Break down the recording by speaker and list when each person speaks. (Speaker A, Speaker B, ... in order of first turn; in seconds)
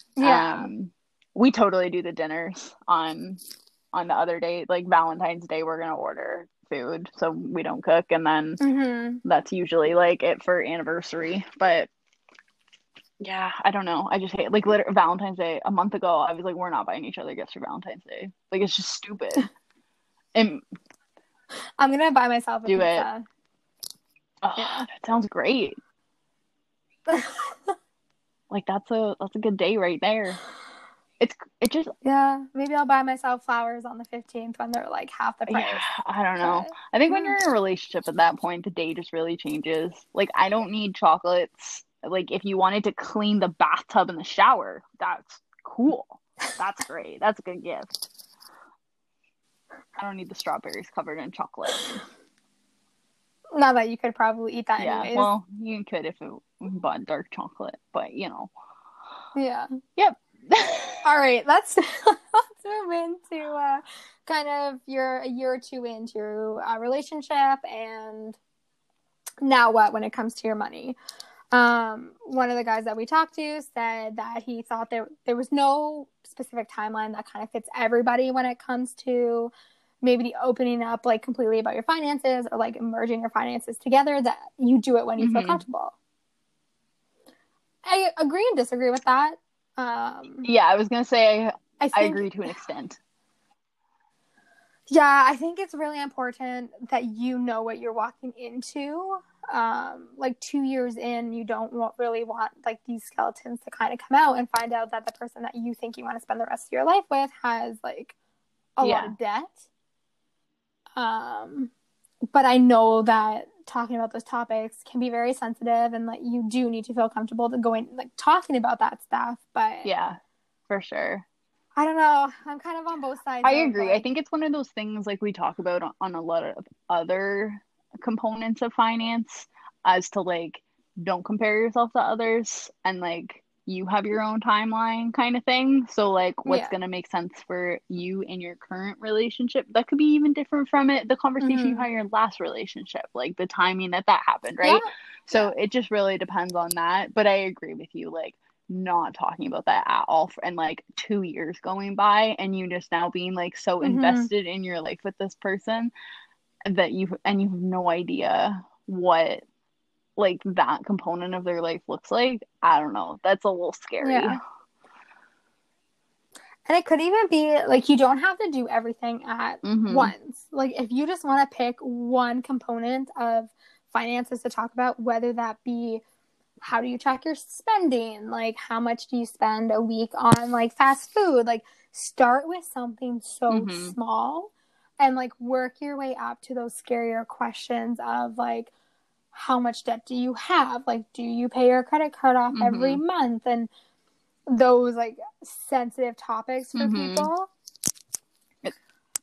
Speaker A: 0.2-0.7, 8.6-9.2, 21.8-23.3, 24.6-24.9, 27.1-27.7, 32.0-37.4, 53.5-55.3, 59.4-59.7, 61.0-68.4, 69.4-71.0, 71.5-86.0, 87.8-90.5, 91.8-92.3, 94.9-108.2, 108.8-109.6, 111.0-111.7, 112.3-119.9, 121.8-124.1, 136.5-136.7, 141.4-141.9, 144.6-144.9, 153.8-154.3, 164.0-164.4, 166.7-176.0, 176.6-188.7, 189.3-193.7, 194.5-197.5
Speaker B: 0.2-3.4, 3.9-8.6, 9.2-11.9, 13.2-19.5, 20.3-20.6, 22.7-23.1, 24.4-25.8, 28.5-30.4, 31.2-31.9, 35.5-48.1, 50.0-52.0, 54.8-58.5, 60.0-61.0, 85.2-85.6, 90.4-93.0, 108.8-109.1, 119.8-121.2, 123.4-155.9, 156.7-159.4, 160.2-164.4, 169.6-170.1, 183.5-184.0, 192.5-193.0, 196.8-197.3